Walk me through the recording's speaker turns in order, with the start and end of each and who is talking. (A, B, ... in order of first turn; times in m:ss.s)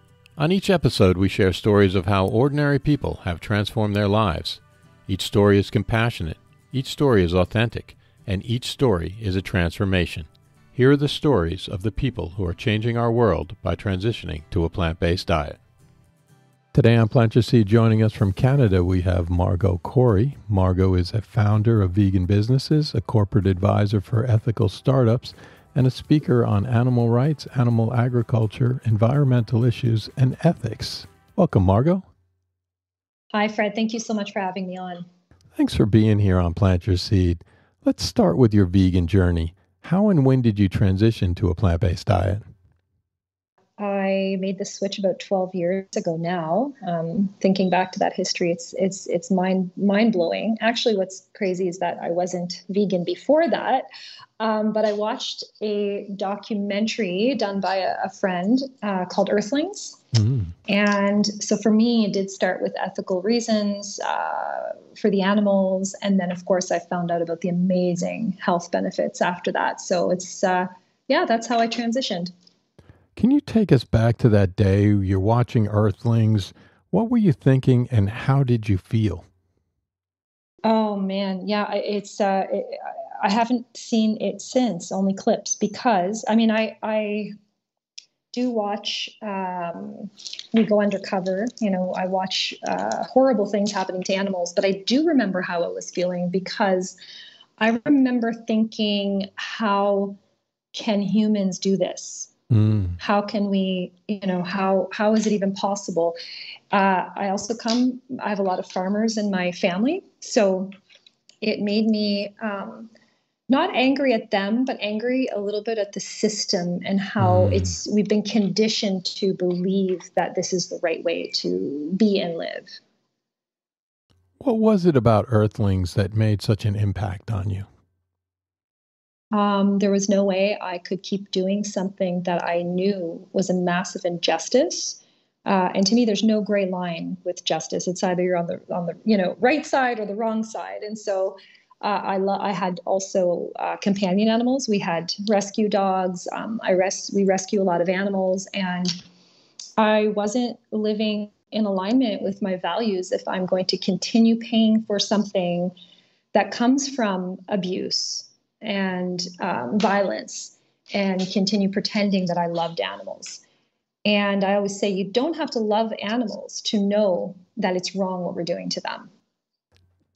0:00.4-0:15.6 A
0:16.7-0:32.0 A
0:33.3-0:35.1 B
0:35.6-0:42.4 A
0:43.8-0:53.8 B
0:54.4-1:00.0 B
1:00.1-1:00.5 A
1:00.7-1:12.3 B
1:13.2-1:19.2 A
1:20.6-1:27.3 B
1:28.3-1:37.0 B
1:37.6-1:40.2 B
1:40.7-1:42.3 B
1:42.5-1:43.0 A
1:43.0-1:46.2 B
1:46.7-1:50.7 B
1:51.4-1:52.9 B
1:53.5-2:02.8 B
1:57.2-1:57.7 A
2:04.4-2:07.7 A
2:09.3-2:29.0 B
2:29.8-2:35.7 B
2:36.3-2:43.4 B
2:44.0-2:49.1 B